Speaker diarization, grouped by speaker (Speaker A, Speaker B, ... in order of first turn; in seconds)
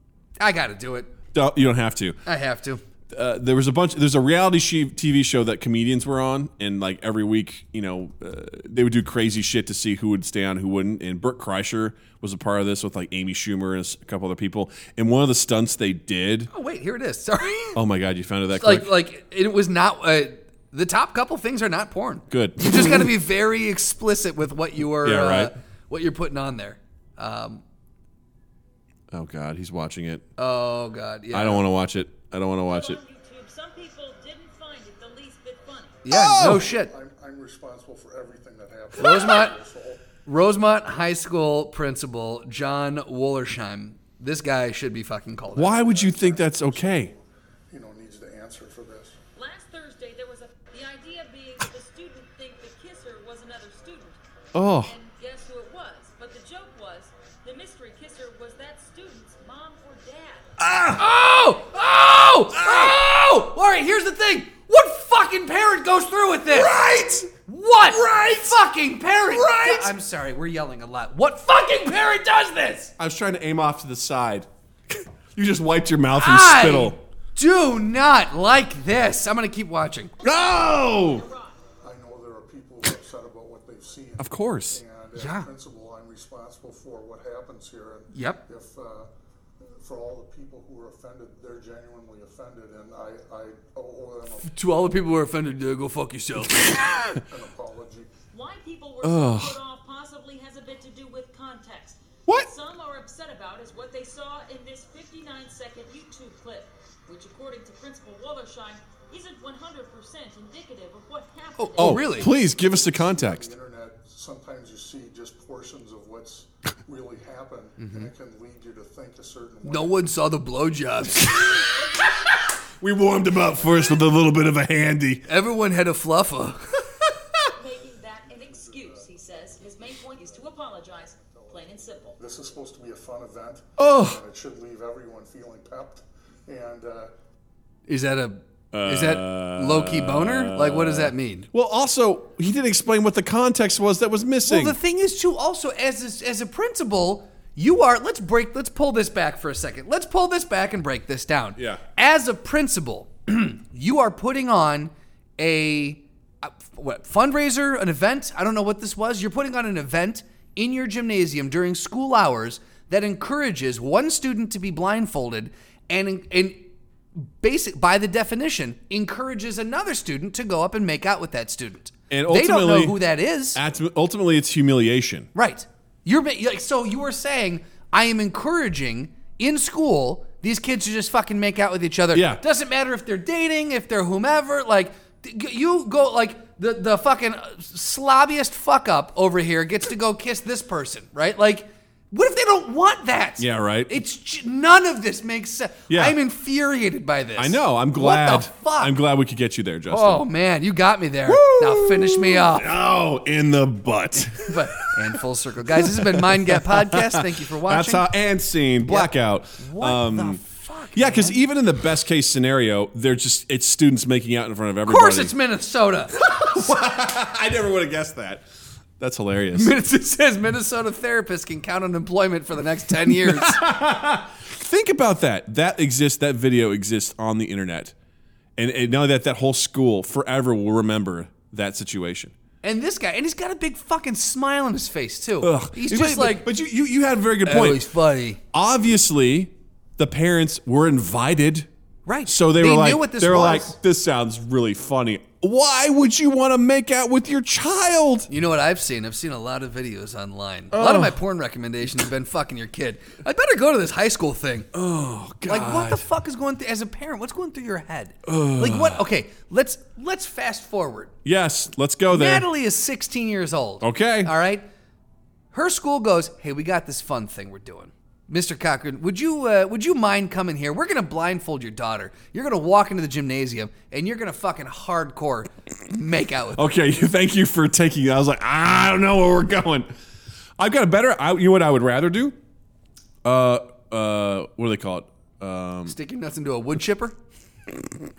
Speaker A: 0.4-1.1, 2.2-2.8, 16.5-17.8, 18.6-27.6, 30.4-31.6, 36.0-36.9, 39.0-39.5, 40.2-45.8, 60.9-66.8, 67.3-72.9, 76.1-80.1, 85.2-85.5, 88.1-88.4, 94.4-97.1, 111.6-112.3, 117.8-118.1, 119.6-121.6, 125.3-126.8, 137.9-141.5, 144.4-166.6, 167.2-173.6, 175.3-198.9, 199.9-202.7, 204.2-208.1, 208.8-211.4, 214.8-216.7, 219.5-223.6, 232.6-236.5, 237.4-238.4, 242.1-243.8, 248.3-254.7, 255.4-261.1, 262.1-264.6, 265.5-276.7, 285.9-287.1
Speaker B: 1.3-2.2, 3.1-16.5, 17.7-18.9, 22.3-23.1, 25.0-25.5, 29.1-30.2, 31.3-33.0, 36.1-36.7, 45.5-47.1, 54.5-54.9, 60.6-61.0, 62.5-63.0, 66.5-67.3, 67.9-68.6, 69.3-69.9, 73.0-77.0, 80.2-81.2, 84.2-84.8, 99.0-99.6, 111.8-113.5, 122.8-125.2, 133.8-134.2, 138.7-144.8, 172.1-173.0, 173.5-175.3, 182.1-182.4, 193.4-193.9, 195.9-196.2, 197.4-200.2, 201.3-205.2, 205.7-210.4, 210.9-215.3, 216.2-218.4, 219.0-219.7, 223.1-227.9, 228.6-232.3, 235.4-237.8, 238.5-241.7, 242.3-248.3, 250.7-251.2, 254.7-256.0, 258.2-259.0, 261.2-262.4, 263.8-264.3, 276.6-279.9, 280.6-282.4, 283.2-285.9
Speaker C: 32.7-36.0, 49.3-60.5, 80.7-81.6, 98.3-112.0, 127.5-132.2
Speaker D: 36.4-40.0, 45.6-49.1, 81.8-89.1, 89.6-94.6, 97.1-98.1, 112.2-120.0, 128.4-129.1, 131.2-131.6, 132.2-137.1